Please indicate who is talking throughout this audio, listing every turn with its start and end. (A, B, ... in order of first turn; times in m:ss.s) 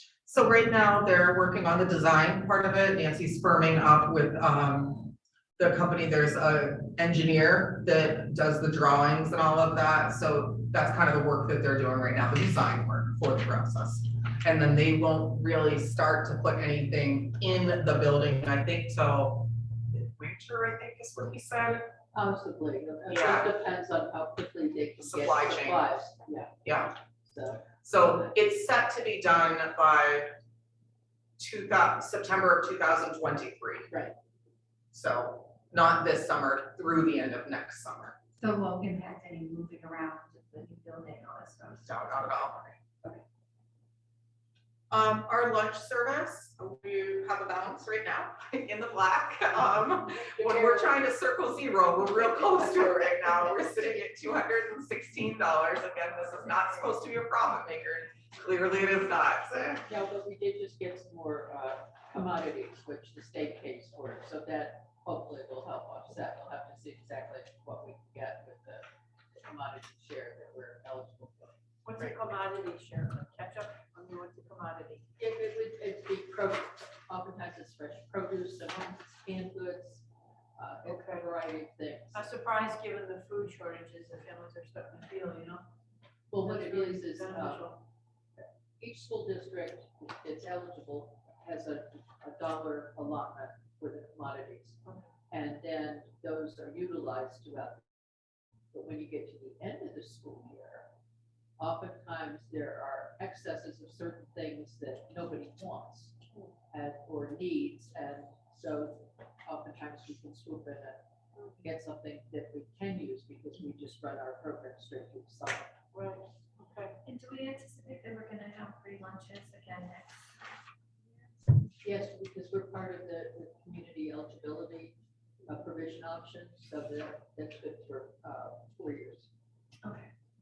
0:00.2-0:21.9 A
0:22.1-0:28.3 B
0:23.1-0:23.5 A
0:25.0-0:25.9 A
0:26.6-0:26.9 A
0:27.8-0:30.4 A
0:31.4-0:33.9 A
0:34.9-0:38.2 A
0:38.4-0:42.7 C
0:41.8-0:42.6 A
0:44.9-0:59.8 A
0:50.1-0:51.0 B
0:52.2-0:54.0 B
0:59.9-1:12.2 B
1:11.9-1:15.0 D
1:15.2-1:20.0 B
1:20.6-1:22.2 B
1:22.1-1:25.6 D
1:26.3-1:27.7 B
1:26.6-1:27.8 D
1:28.8-1:34.8 B
1:35.3-1:37.9 B
1:38.7-1:40.9 B
1:41.6-1:46.1 B
1:46.7-1:51.0 B
1:51.6-1:55.7 B
1:55.9-1:56.9 D
1:57.0-2:00.3 C
2:01.8-2:05.0 B
2:05.5-2:09.3 B
2:09.8-2:10.1 C